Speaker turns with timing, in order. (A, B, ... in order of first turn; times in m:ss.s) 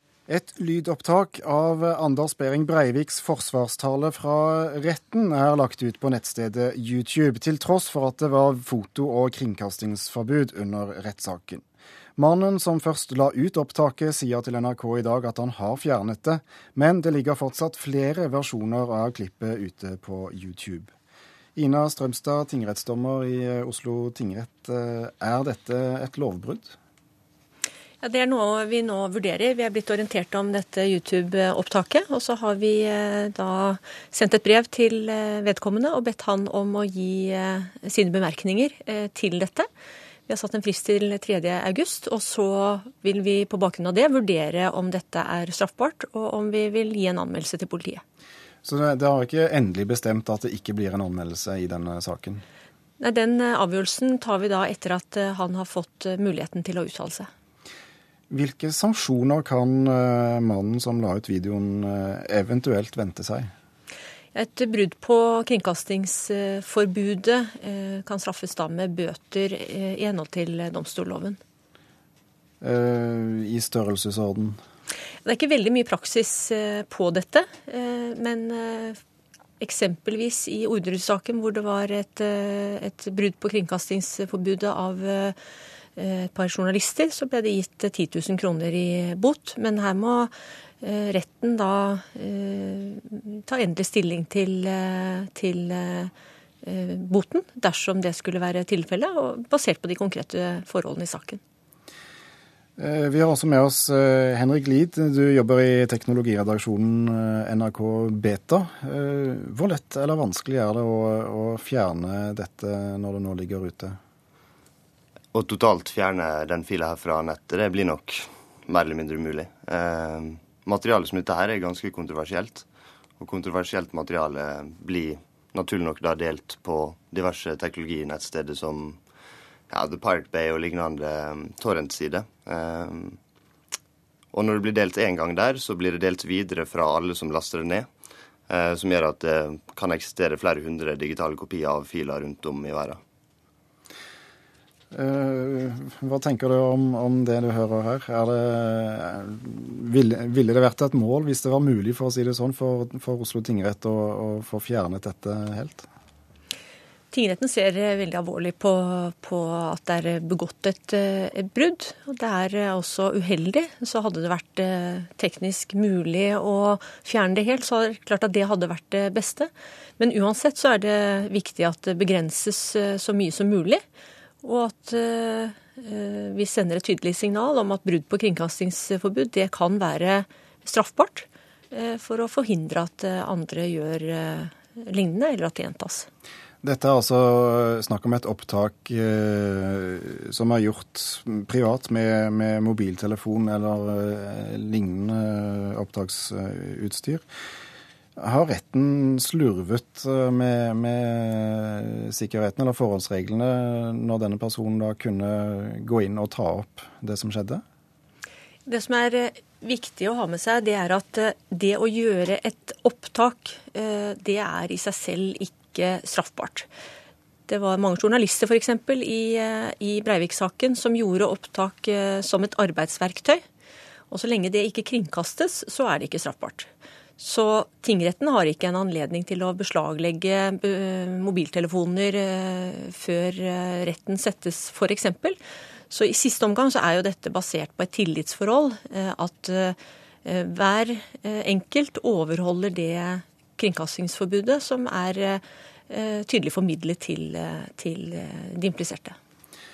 0:00.3-0:11.6 A
0:12.2-0:20.9 A
0:21.6-0:26.7 A
0:28.0-0:39.7 B
0:40.3-0:48.0 B
0:48.6-0:52.4 A
0:53.0-0:57.3 B
0:58.3-1:03.5 A
1:04.3-1:11.4 B
1:12.6-1:14.6 A
1:15.2-1:19.0 B
1:19.6-1:25.4 B
1:26.0-1:36.1 B
1:36.6-1:41.4 B
1:42.8-1:54.0 A
1:55.3-2:02.6 C
2:03.2-2:09.0 C
2:09.7-2:13.2 C
2:14.3-2:17.9 C
2:18.5-2:23.0 C
2:24.9-2:35.9 A
2:37.1-2:53.8 B
2:54.4-3:06.1 B
3:06.6-3:17.2 A
3:18.2-3:27.6 A
3:28.6-3:36.7 B
3:37.5-3:43.4 B
3:44.1-4:09.2 B